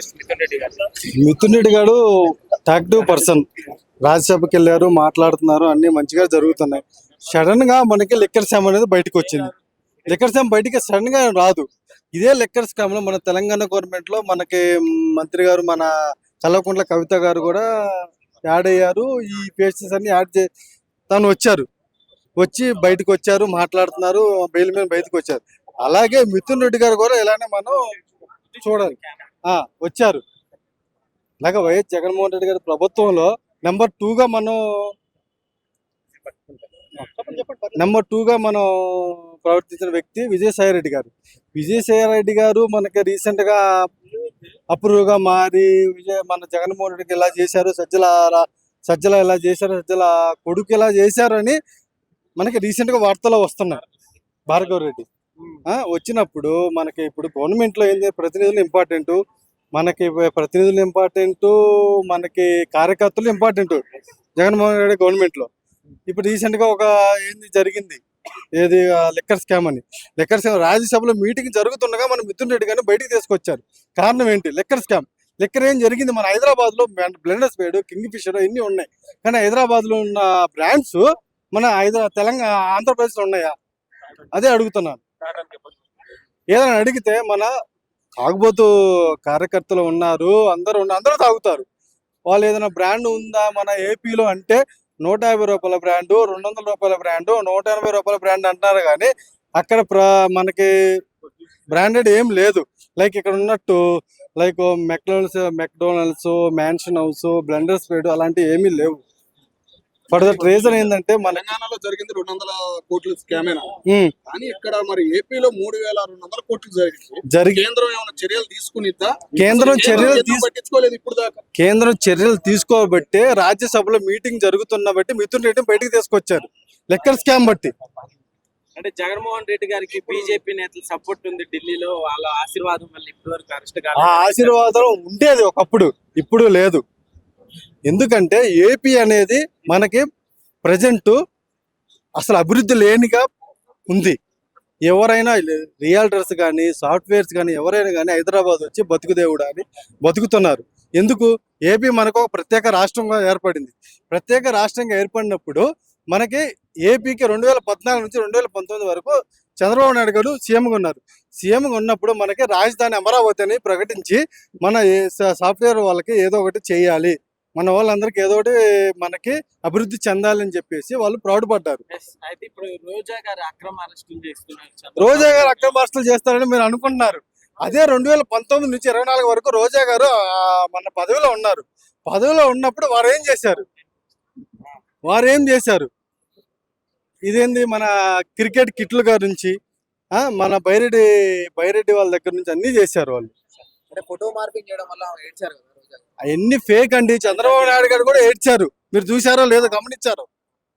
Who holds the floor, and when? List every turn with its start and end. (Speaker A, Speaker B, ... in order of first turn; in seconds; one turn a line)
Speaker A: 1.2-2.0
Speaker A: 2.7-3.5
Speaker A: 4.0-9.5
Speaker A: 10.1-15.9
Speaker A: 16.4-17.7
Speaker A: 18.5-20.5
Speaker A: 21.1-21.7
Speaker A: 22.4-27.8
Speaker B: 28.5-29.1
Speaker A: 28.6-29.0
Speaker A: 29.5-30.2
Speaker A: 31.4-34.6
Speaker B: 36.2-36.8
Speaker A: 37.8-43.6
Speaker A: 44.7-51.6
Speaker A: 52.4-53.8
Speaker A: 54.5-55.0
Speaker A: 55.7-59.2
Speaker A: 59.8-63.8
Speaker A: 64.4-65.5
Speaker A: 66.1-68.0
Speaker A: 68.6-83.5
Speaker A: 84.3-85.0
Speaker A: 86.5-87.5
Speaker A: 88.2-88.7
Speaker A: 89.2-91.7
Speaker A: 92.3-100.7
Speaker A: 101.7-103.8
Speaker A: 104.4-109.0
Speaker A: 110.1-111.5
Speaker C: 110.2-110.7
Speaker C: 111.2-121.4
Speaker A: 117.3-117.6
Speaker A: 119.3-120.5
Speaker A: 121.6-127.7
Speaker B: 128.8-134.6
Speaker A: 134.0-136.8
Speaker A: 137.9-140.1
Speaker A: 140.7-141.2
Speaker A: 142.2-143.3
Speaker A: 143.9-144.2
Speaker A: 144.9-171.8
Speaker B: 171.9-175.7
Speaker A: 175.0-183.6
Speaker A: 185.1-185.9
Speaker A: 187.3-189.6
Speaker A: 190.2-193.3
Speaker D: 193.9-196.0
Speaker A: 196.2-200.3